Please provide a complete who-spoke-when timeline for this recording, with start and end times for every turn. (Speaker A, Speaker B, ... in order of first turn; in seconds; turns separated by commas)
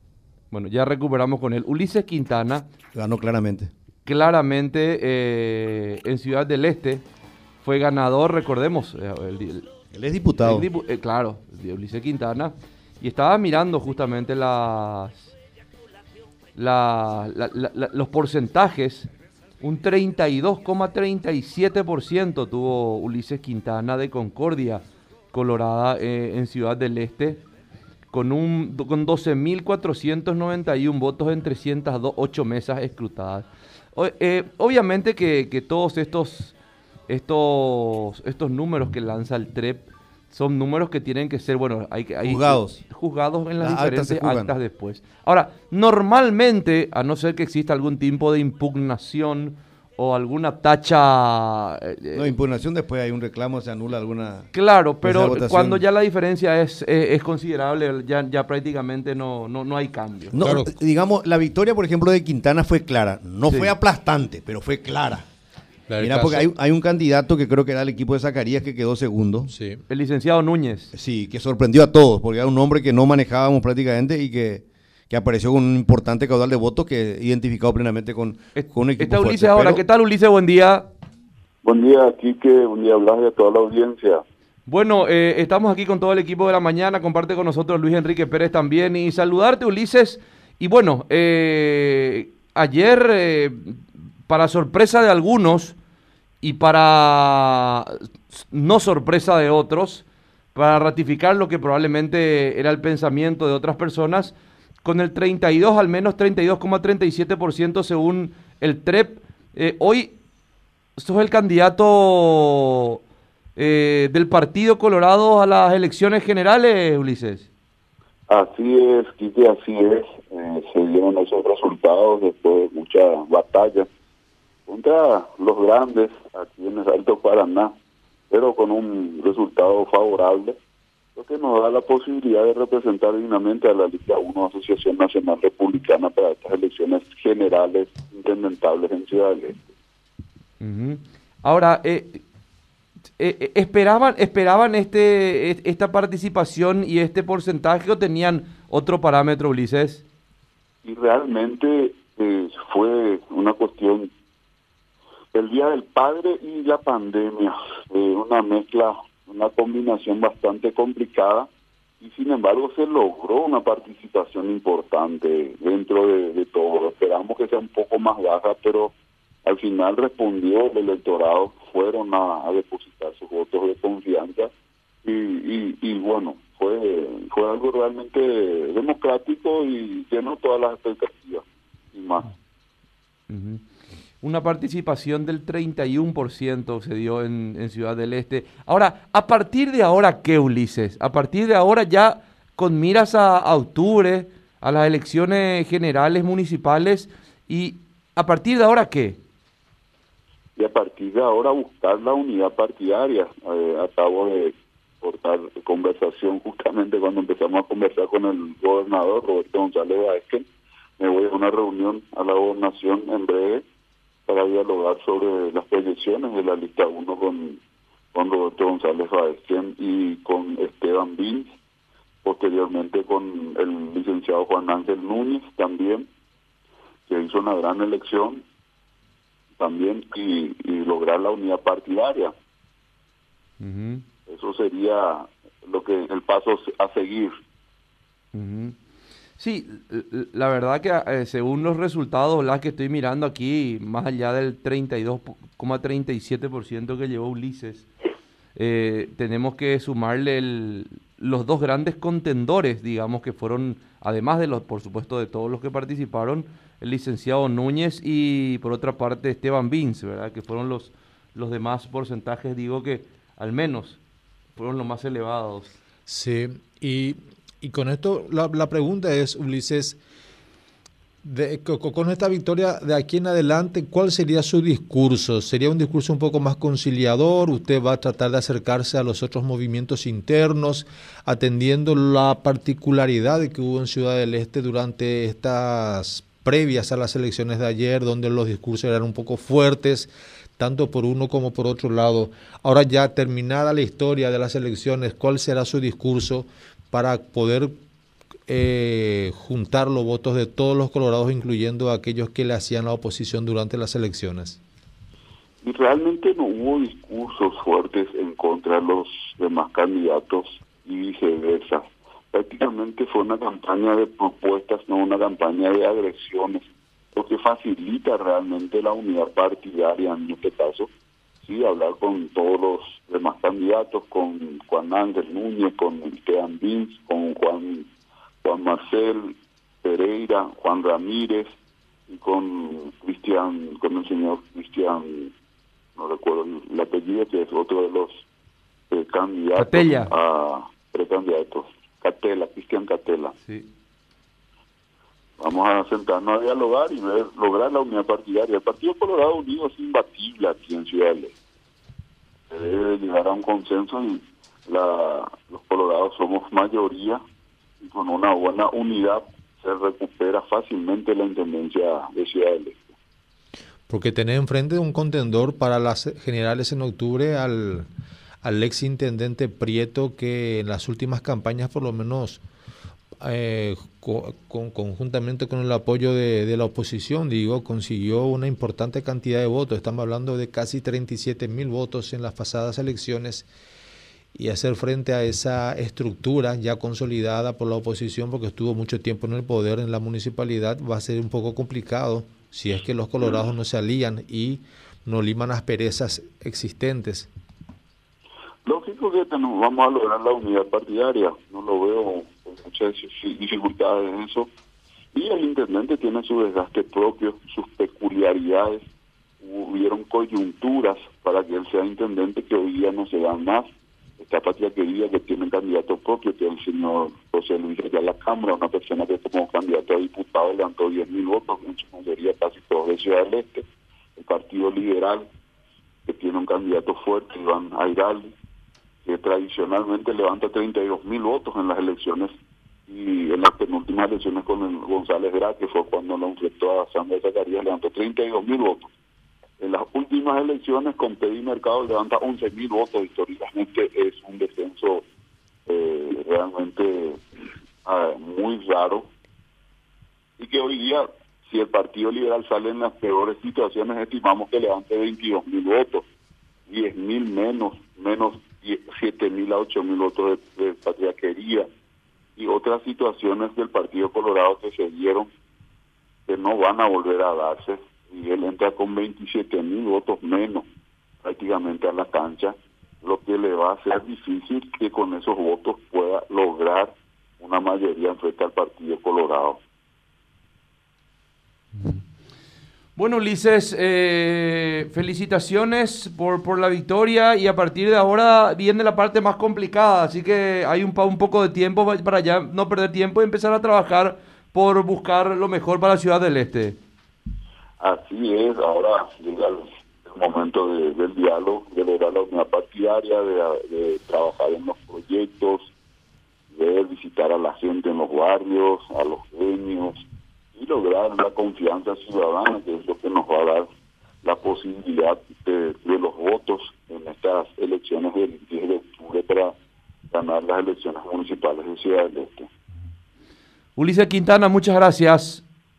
Speaker A: 0.5-2.6, Speaker B: 2.9-3.7, Speaker A: 4.0-7.0, Speaker A: 7.6-9.7, Speaker B: 9.9-10.7, Speaker A: 10.4-15.3, Speaker A: 16.6-19.1, Speaker A: 19.6-27.4, Speaker A: 28.1-36.6, Speaker A: 37.1-52.3, Speaker B: 42.2-42.8, Speaker B: 43.6-44.5, Speaker B: 52.1-54.5, Speaker A: 54.5-60.3, Speaker B: 55.0-55.8, Speaker B: 60.3-65.2, Speaker C: 60.4-60.7, Speaker A: 63.5-63.7, Speaker C: 65.9-66.4, Speaker B: 66.0-69.5, Speaker C: 69.5-69.8, Speaker A: 69.9-70.9, Speaker B: 70.9-79.8, Speaker A: 78.5-80.9, Speaker D: 81.6-84.2, Speaker A: 84.7-95.8, Speaker A: 96.4-110.1, Speaker A: 111.0-113.0, Speaker A: 113.5-117.5, Speaker D: 118.3-123.9, Speaker D: 124.7-127.7, Speaker D: 128.3-130.6, Speaker D: 131.2-139.7, Speaker A: 140.6-142.2, Speaker A: 143.2-150.0, Speaker D: 150.8-154.1, Speaker D: 155.3-161.5, Speaker D: 162.0-168.9, Speaker D: 169.4-174.5, Speaker D: 175.0-182.3, Speaker A: 183.3-183.6, Speaker A: 184.2-199.2, Speaker D: 200.6-210.4, Speaker D: 211.0-213.6, Speaker D: 214.3-217.6, Speaker D: 218.1-221.5, Speaker D: 222.2-226.1, Speaker D: 227.1-228.4, Speaker D: 229.6-232.3, Speaker A: 233.6-234.0, Speaker D: 234.3-237.3, Speaker A: 238.3-238.8, Speaker A: 239.4-247.9, Speaker A: 248.6-264.0, Speaker A: 264.6-265.7, Speaker C: 266.1-270.0, Speaker C: 271.2-297.7, Speaker C: 298.5-304.6, Speaker D: 305.6-320.9, Speaker D: 321.4-327.9, Speaker D: 328.4-331.5, Speaker D: 332.1-335.3, Speaker D: 336.0-338.2, Speaker D: 338.9-343.3, Speaker A: 339.6-340.1, Speaker D: 345.4-351.3, Speaker D: 352.5-357.2, Speaker D: 357.8-362.8, Speaker C: 363.9-367.9, Speaker C: 368.4-372.4, Speaker C: 373.2-383.5, Speaker C: 384.3-397.3, Speaker D: 393.2-393.5, Speaker D: 398.6-404.5, Speaker D: 405.1-408.8, Speaker D: 409.4-413.7, Speaker D: 414.2-423.6, Speaker D: 424.2-425.3, Speaker D: 426.1-428.3, Speaker D: 429.0-432.3, Speaker D: 432.9-438.9, Speaker D: 439.6-445.0, Speaker D: 445.7-447.2, Speaker D: 447.8-449.1, Speaker D: 450.4-456.0, Speaker D: 456.7-461.7, Speaker D: 462.4-465.3, Speaker D: 466.3-470.6, Speaker D: 471.2-479.6, Speaker A: 481.8-482.0, Speaker A: 482.9-496.8, Speaker D: 497.8-505.7, Speaker D: 506.5-510.0, Speaker D: 510.5-513.7, Speaker D: 514.2-519.5, Speaker D: 520.1-522.5, Speaker A: 523.8-525.4